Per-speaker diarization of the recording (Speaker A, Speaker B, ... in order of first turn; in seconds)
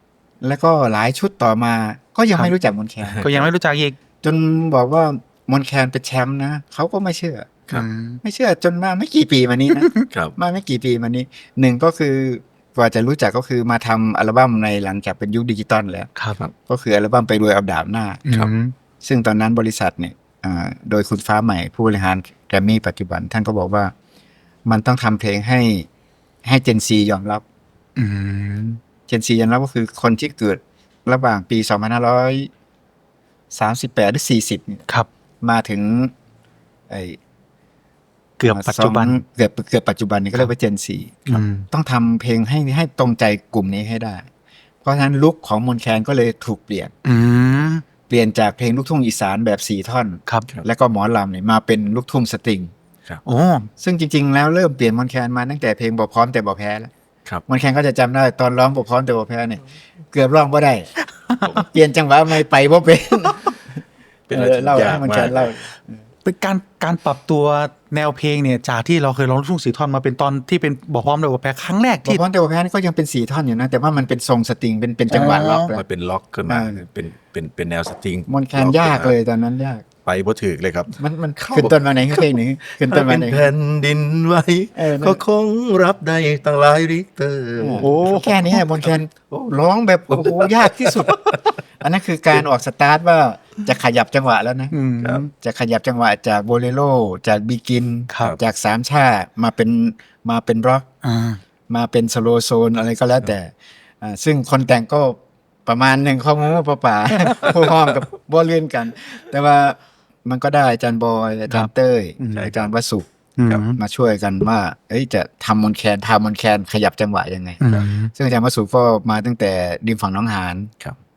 Speaker A: 0.4-3.5, 4.2-7.5, 8.2-16.1, 16.7-18.2, 19.0-23.9, 24.7-25.9, 26.4-27.4, 29.1-32.5, 33.5-34.8, 35.4-36.1, 36.9-37.2, 38.5-44.2, 44.8-46.9, 48.1-52.7, 53.8-56.9, 57.5-60.9, 61.5-63.6, 64.3-66.0, 72.0-75.8, 76.5-76.9, 78.3-79.9, 81.0-83.5, 84.8-85.2, 87.6-91.2, 91.8-94.7, 95.3-100.9, 101.7-120.7
Speaker B: 3.2-4.0, 7.7-8.2, 18.2-18.7, 28.0-28.8, 38.4-39.2, 41.3-41.7, 47.0-47.8, 53.2-53.7, 61.3-61.5, 66.2-72.2, 75.1-75.7, 87.8-88.4, 94.7-95.3, 98.1-98.4, 101.0-101.4, 111.5-112.5, 113.4-113.8, 117.6-118.1
Speaker C: 64.3-65.5, 75.1-79.1, 80.0-89.0, 90.1-91.5, 112.3-112.7